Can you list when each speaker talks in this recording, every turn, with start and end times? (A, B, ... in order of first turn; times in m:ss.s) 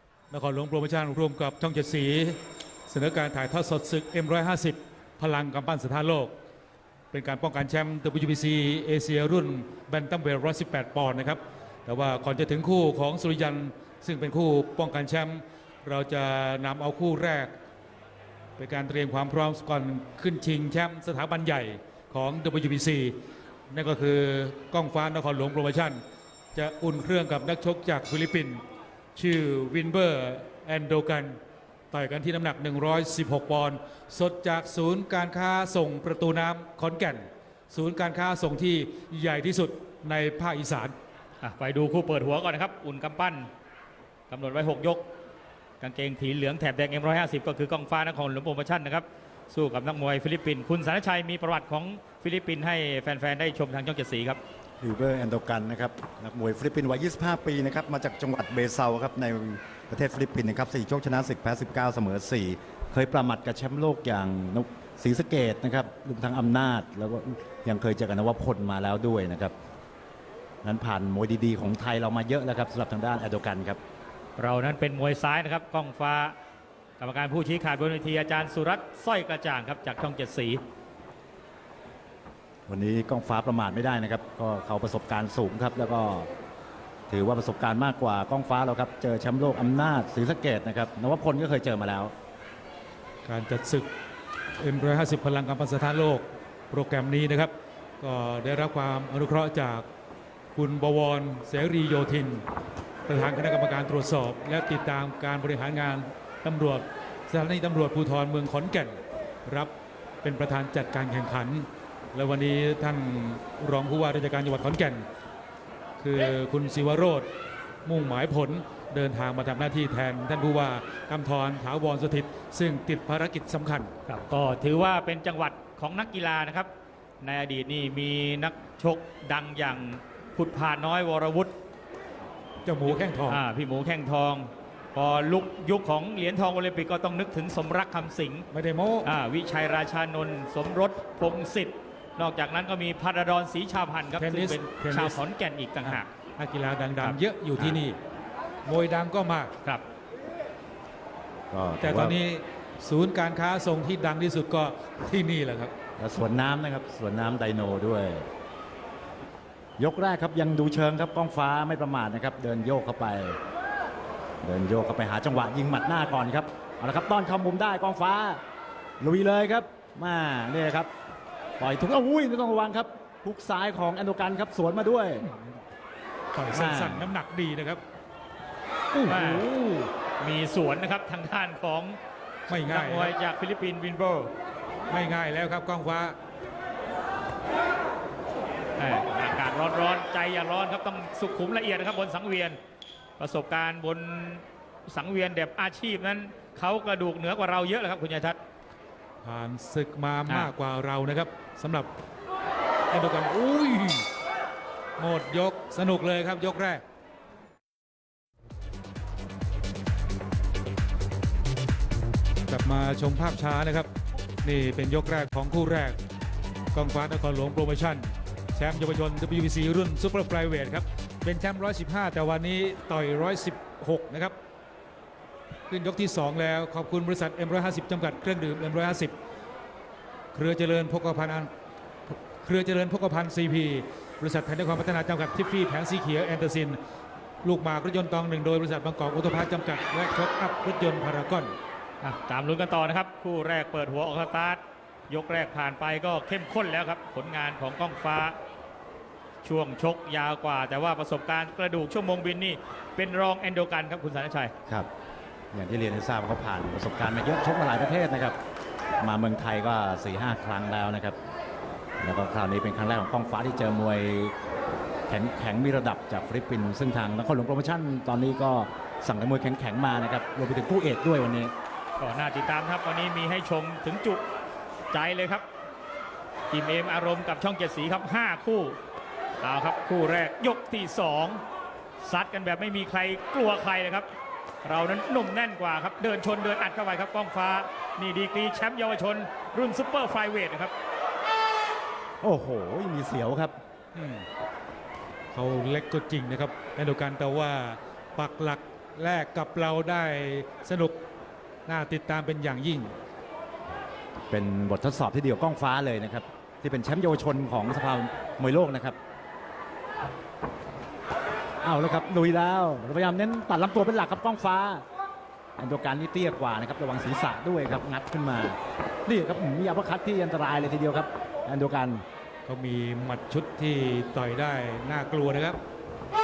0:00.3-0:06.3 A
0:07.1-0:17.5 A
0:18.6-0:23.1 A
0:23.7-0:26.0 A
0:26.5-0:28.6 A
0:29.2-0:31.4 A
0:31.9-0:40.9 A
0:41.4-0:43.5 B
0:44.3-0:45.1 B
0:45.8-0:54.4 B
0:54.8-1:09.5 C
1:10.6-1:13.8 C
1:14.4-1:16.4 B
1:17.0-1:20.6 B
1:22.7-1:26.3 C
1:27.1-1:32.1 C
1:33.2-1:33.9 A
1:34.6-1:39.8 A
1:40.5-1:42.4 A
1:43.1-1:49.7 A
1:50.2-1:55.0 A
1:56.0-1:57.3 A
1:57.8-2:03.9 A
2:04.1-2:06.7 B
2:07.2-2:11.5 B
2:12.6-2:13.4 A
2:13.3-2:18.5 B
2:18.5-2:19.1 A
2:19.0-2:26.1 B
2:24.2-2:25.2 A
2:25.8-2:28.0 A
2:28.6-2:29.5 A
2:31.5-2:32.2 C
2:31.8-2:35.7 A
2:36.0-2:38.2 C
2:39.8-2:43.4 C
2:44.4-2:48.4 C
2:49.0-2:50.9 C
2:51.6-2:55.3 C
2:55.2-2:55.6 A
2:56.3-2:57.8 A
2:56.5-2:57.1 C
2:58.9-2:59.9 A
2:59.1-2:59.4 B
3:00.2-3:02.0 B
3:02.5-3:03.1 A
3:02.5-3:04.3 B
3:04.9-3:06.1 A
3:08.8-3:12.6 B
3:13.2-3:18.4 B
3:19.2-3:21.9 A
3:22.9-3:24.0 A
3:25.0-3:26.8 A
3:32.5-3:33.9 A
3:34.4-3:36.0 A
3:36.7-3:44.3 A
3:45.7-3:49.1 A
3:50.3-3:51.5 A
3:52.4-3:56.8 A
3:57.4-4:01.5 A
4:02.0-4:08.4 B
4:09.4-4:14.5 B
4:15.5-4:18.4 C
4:19.0-4:21.2 C
4:22.0-4:24.3 C
4:25.1-4:31.5 C
4:32.0-4:34.2 B
4:34.9-4:35.4 B
4:36.5-4:38.8 B
4:39.4-4:41.4 B
4:42.0-4:44.1 B
4:44.6-4:50.7 B
4:52.2-4:53.5 C
4:53.9-4:54.2 A
4:55.3-5:01.0 A
5:01.7-5:02.9 A
5:04.3-5:09.0 C
5:11.6-5:14.8 C
5:15.6-5:22.0 C
5:22.4-5:25.6 A